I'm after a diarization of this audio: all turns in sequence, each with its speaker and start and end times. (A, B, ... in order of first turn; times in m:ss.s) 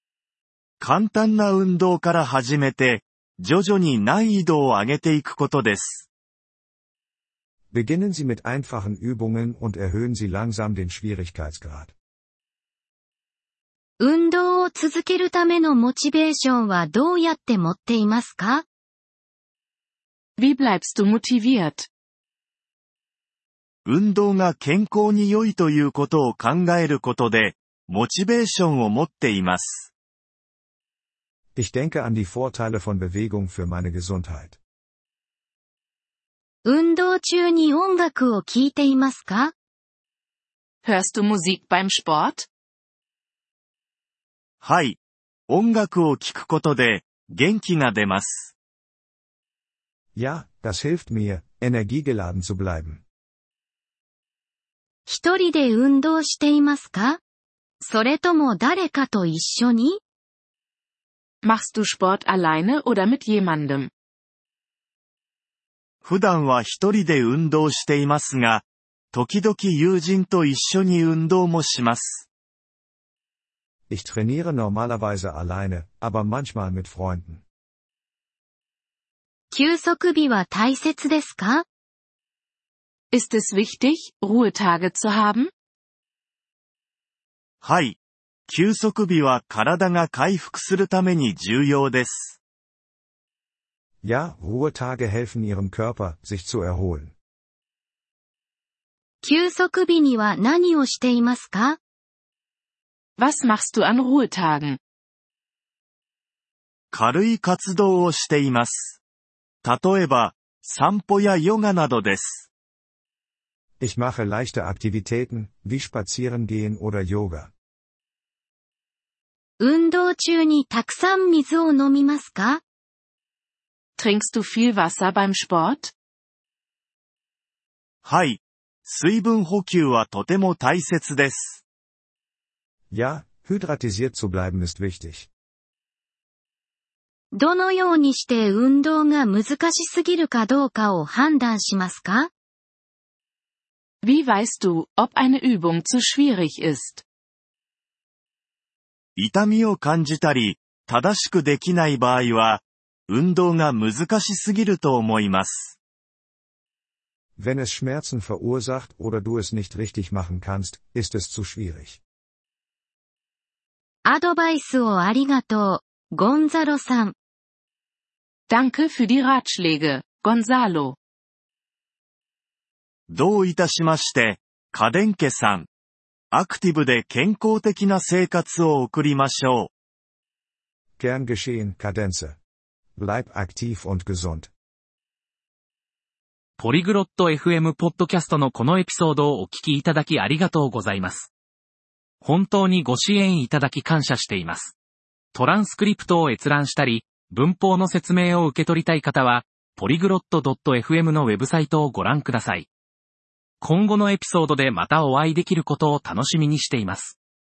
0:00.8-0:06.1 A
0:07.7-0:11.9 B
0:14.0-0:18.7 C
0:20.4-0:21.9 D
0:23.9-0:29.9 A
0:31.6-0:34.6 B
0:36.6-0:39.5 C
0:40.8-0:42.5 D
0:44.6-0:45.0 A
0:45.5-0:48.6 A
0:50.2-0:53.0 B
0:55.1-0:57.2 C
0:57.8-1:00.0 C
1:01.4-1:03.9 D
1:06.0-1:12.3 A
1:13.9-1:17.4 B
1:19.5-1:21.7 C
1:23.1-1:25.5 D
1:27.6-1:32.4 A
1:34.0-1:37.1 B
1:39.2-1:41.8 C
1:43.2-1:44.8 D
1:46.9-1:49.0 A
1:49.6-1:52.5 A
1:53.8-1:57.5 B
1:59.6-2:02.6 C
2:04.0-2:05.9 D
2:08.0-2:11.6 A
2:12.9-2:15.3 B
2:17.3-2:22.3 C
2:24.0-2:27.0 D
2:29.2-2:35.8 A
2:37.4-2:42.0 B
2:44.0-2:47.2 C
2:48.5-2:51.0 D
2:53.1-2:55.7 A
2:56.3-2:59.7 A
3:01.0-3:02.4 B
3:03.0-3:04.5 B
3:06.6-3:11.3 E
3:12.2-3:14.8 E
3:15.3-3:22.7 E
3:23.6-3:27.2 E